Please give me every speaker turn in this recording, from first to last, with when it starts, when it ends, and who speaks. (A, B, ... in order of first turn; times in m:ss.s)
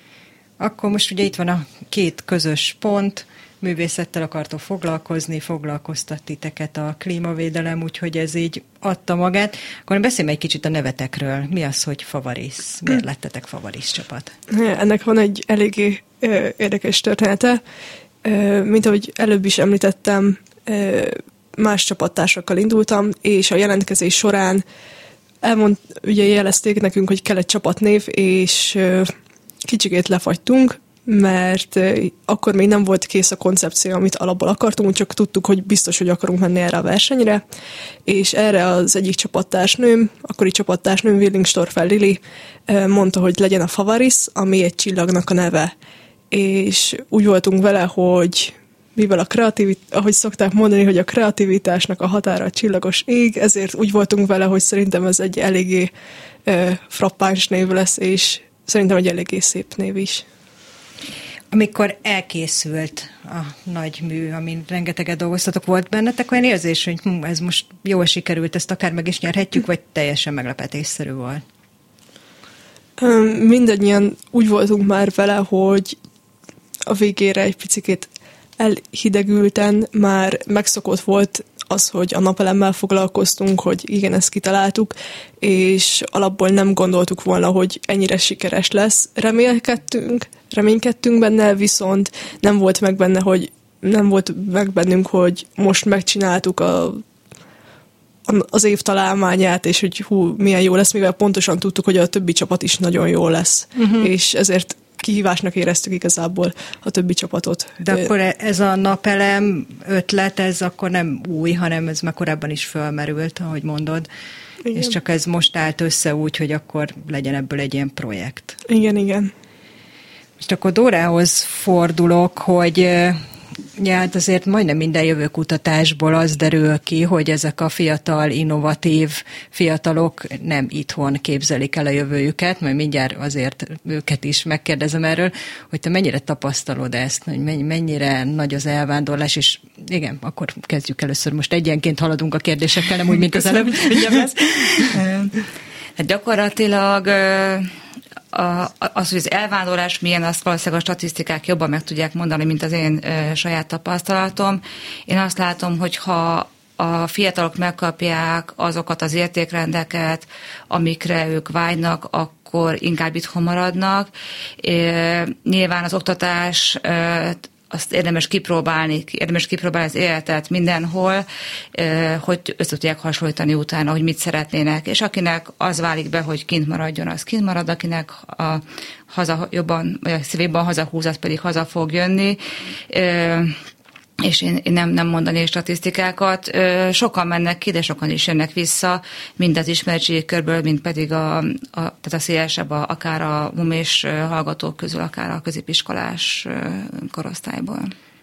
0:00.6-0:14.3 A
0:14.5-0:17.6 B
0:18.2-0:24.6 B
0:25.4-0:29.1 B
0:29.6-0:37.4 B
0:38.1-0:45.7 B
0:46.3-0:55.9 B
0:56.4-1:00.2 B
1:01.5-1:11.4 A
1:13.0-1:16.0 B
1:16.9-1:37.0 B
1:38.3-1:48.1 B
1:43.8-1:44.1 A
1:47.8-1:54.1 A
1:54.6-1:54.9 B
1:54.7-1:58.6 A
1:58.7-1:59.3 B
2:00.4-2:03.2 A
2:03.8-2:24.9 A
2:24.9-2:25.3 C
2:26.0-2:27.7 C
2:28.3-3:03.6 C
3:04.2-3:17.9 C